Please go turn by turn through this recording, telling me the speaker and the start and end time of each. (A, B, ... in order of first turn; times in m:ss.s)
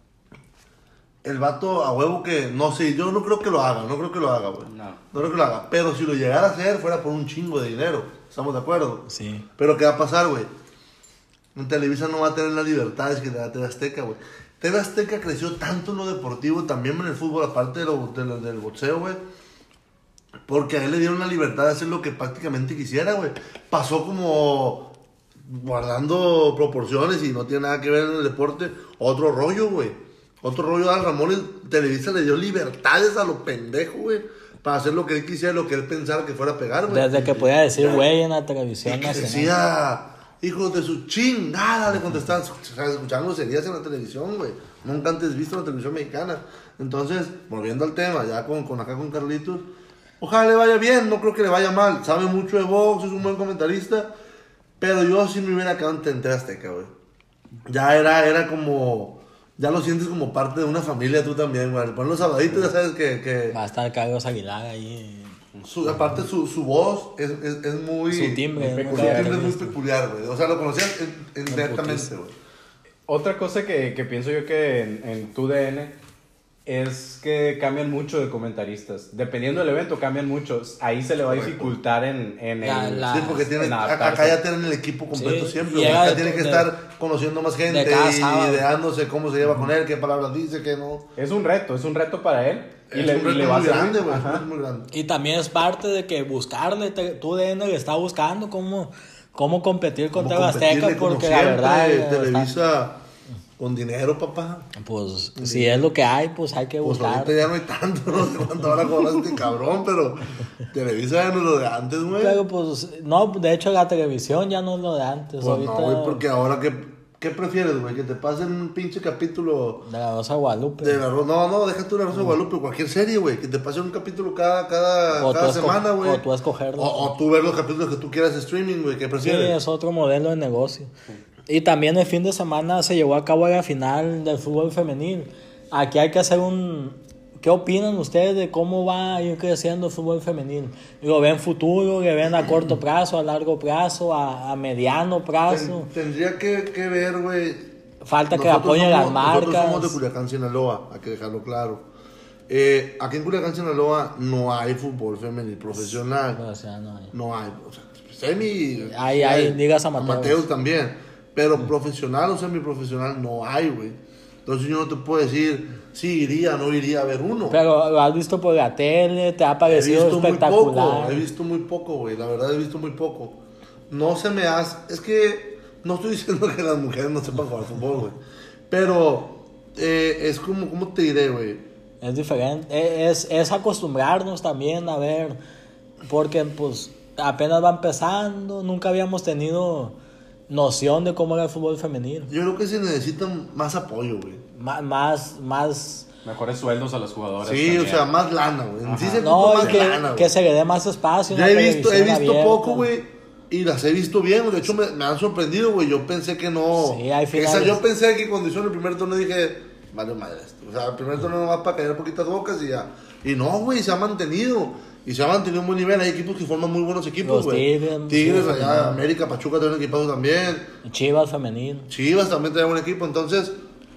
0:01.2-0:10.5 A
0:04.7-0:05.0 B
0:09.1-0:09.4 C
0:11.5-0:19.2 A
0:20.5-0:38.1 A
0:36.9-0:39.5 C
0:38.8-0:49.7 A
0:50.2-0:54.1 A
0:54.8-0:56.9 A
0:57.7-1:03.6 A
1:03.5-1:05.4 C
1:05.6-1:12.3 A
1:08.1-1:09.8 C
1:08.6-1:09.4 B
1:11.5-1:12.1 C
1:13.1-1:16.0 B
1:16.6-1:24.4 B
1:21.2-1:21.7 A
1:22.6-1:23.5 C
1:23.1-1:31.1 A
1:25.1-1:26.7 C
1:27.7-1:28.6 C
1:31.2-1:34.4 B
1:32.9-1:34.9 A
1:34.9-1:42.5 C
1:40.1-1:43.0 A
1:43.6-1:44.7 A
1:44.8-1:47.4 C
1:45.4-1:45.9 A
1:46.8-1:52.4 A
1:52.1-1:56.2 C
1:55.4-1:59.8 A
1:59.8-2:01.0 C
2:00.8-2:06.2 A
2:05.2-2:07.1 C
2:06.8-2:09.6 A
2:09.2-2:10.9 C
2:11.5-2:25.9 C
2:25.5-2:27.7 A
2:28.0-2:30.0 C
2:28.3-2:31.8 A
2:32.5-2:36.4 A
2:35.8-2:37.1 C
2:37.1-2:47.6 A
2:38.8-2:40.4 C
2:47.5-2:51.2 C
2:49.6-2:58.2 A
2:58.7-3:01.6 A
3:02.0-3:05.4 C
3:06.0-3:10.0 C
3:10.5-3:12.3 C
3:12.3-3:14.4 A
3:14.5-3:16.1 C
3:16.2-3:18.0 B
3:17.4-3:20.3 A
3:18.8-3:19.8 B
3:19.2-3:22.9 C
3:21.3-3:40.7 A
3:26.7-3:27.8 C
3:37.2-3:39.0 C
3:40.8-3:41.9 C
3:41.9-3:43.6 A